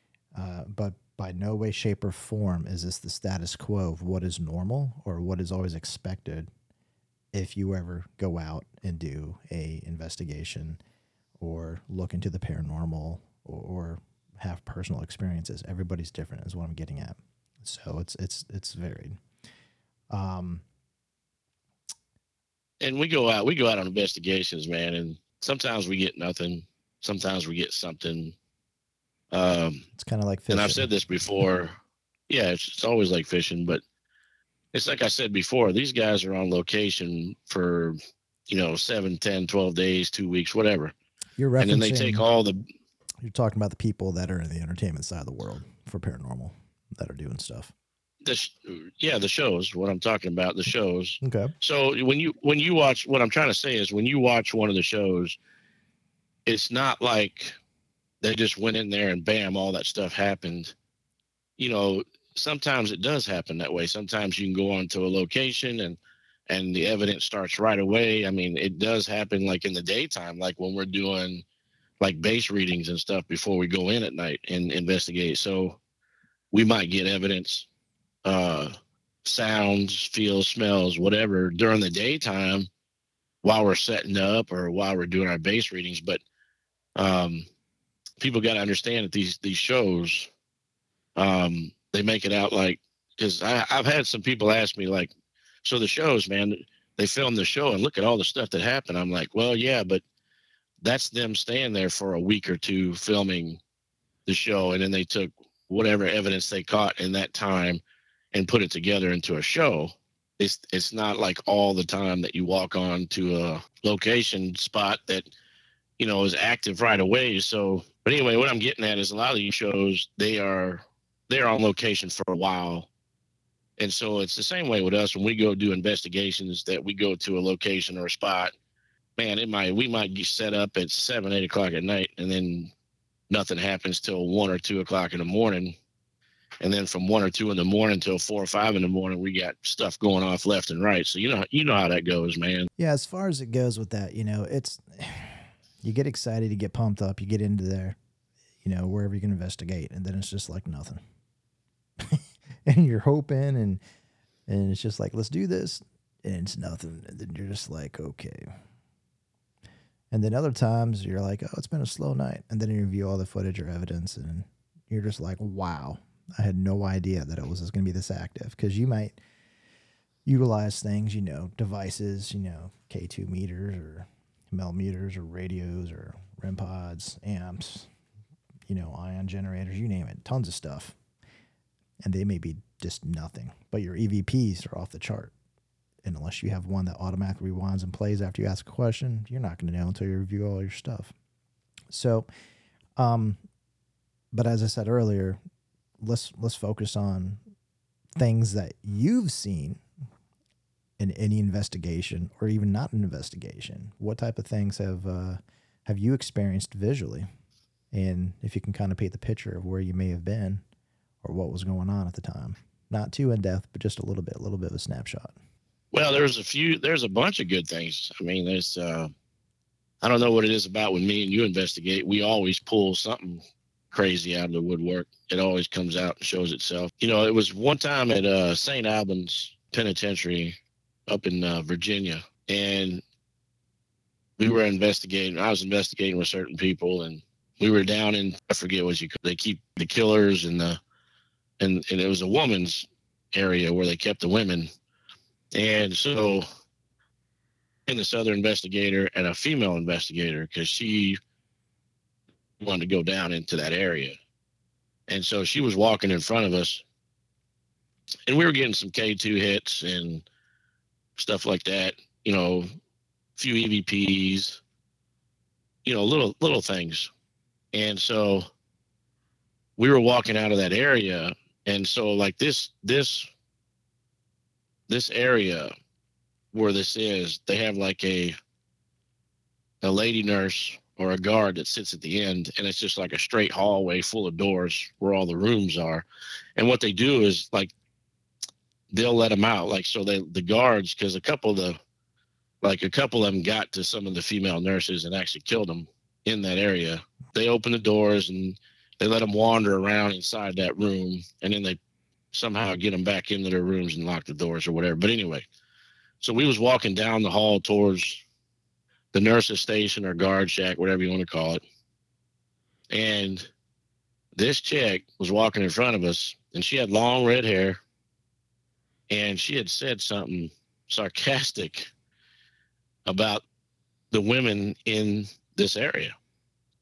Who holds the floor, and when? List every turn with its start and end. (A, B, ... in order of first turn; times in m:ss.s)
0:00.3-0:06.5 A
0:07.3-0:10.8 A
0:11.4-0:19.2 A
0:20.1-0:20.6 A
0:22.8-0:28.3 B
0:29.3-0:29.8 B
0:29.9-0:31.4 A
0:30.5-0:31.7 B
0:32.3-0:33.8 B
0:34.7-0:38.0 B
0:38.5-0:40.9 B
0:41.4-0:42.2 A
0:41.6-0:42.6 B
0:43.2-0:47.7 A
0:48.2-0:55.4 B
0:51.2-0:51.5 A
0:56.4-0:57.6 B
0:58.2-1:00.7 B
1:01.6-1:11.4 B
1:12.0-1:15.8 B
1:16.5-1:17.7 B
1:18.2-1:18.7 B
1:19.2-1:22.7 B
1:23.4-1:26.2 B
1:27.0-1:27.4 B
1:28.2-1:30.3 B
1:31.2-1:35.1 B
1:35.6-1:40.0 B
1:40.8-1:43.6 B
1:44.3-1:47.8 B
1:48.3-1:55.3 B
1:56.0-2:02.9 B
2:03.8-2:08.5 B
2:09.2-2:12.7 B
2:13.3-2:15.8 B
2:16.6-2:22.7 B
2:22.8-2:28.0 A
2:28.6-2:31.0 A
2:32.0-2:33.8 A
2:34.5-2:38.5 A
2:40.1-2:49.2 A
2:50.2-2:57.9 A
2:58.7-3:01.0 A
3:02.0-3:05.3 A
3:06.0-3:11.1 A
3:11.9-3:12.3 A
3:13.0-3:13.4 A
3:14.3-3:15.4 A
3:16.0-3:17.4 A
3:18.2-3:19.8 A
3:21.0-3:27.3 A
3:27.9-3:30.6 A
3:31.2-3:35.3 A
3:35.9-3:39.1 B
3:40.0-3:50.6 B
3:51.1-3:53.0 B
3:54.4-4:00.8 B
4:01.6-4:04.7 B
4:05.5-4:06.4 B
4:07.9-4:11.2 B
4:12.6-4:14.2 B
4:15.1-4:16.8 B
4:18.3-4:20.2 B
4:21.2-4:22.7 B
4:23.4-4:24.6 B
4:25.8-4:27.1 B
4:27.7-4:28.4 B
4:29.8-4:33.3 B
4:34.9-4:35.7 B
4:36.5-4:38.4 B
4:39.8-4:47.7 B
4:48.9-4:51.8 B
4:52.6-5:01.8 B
5:02.3-5:05.4 B
5:06.2-5:08.2 B
5:09.1-5:11.6 B
5:12.9-5:13.5 B
5:14.3-5:17.8 B
5:19.1-5:21.9 B
5:23.0-5:23.4 B
5:24.1-5:26.1 B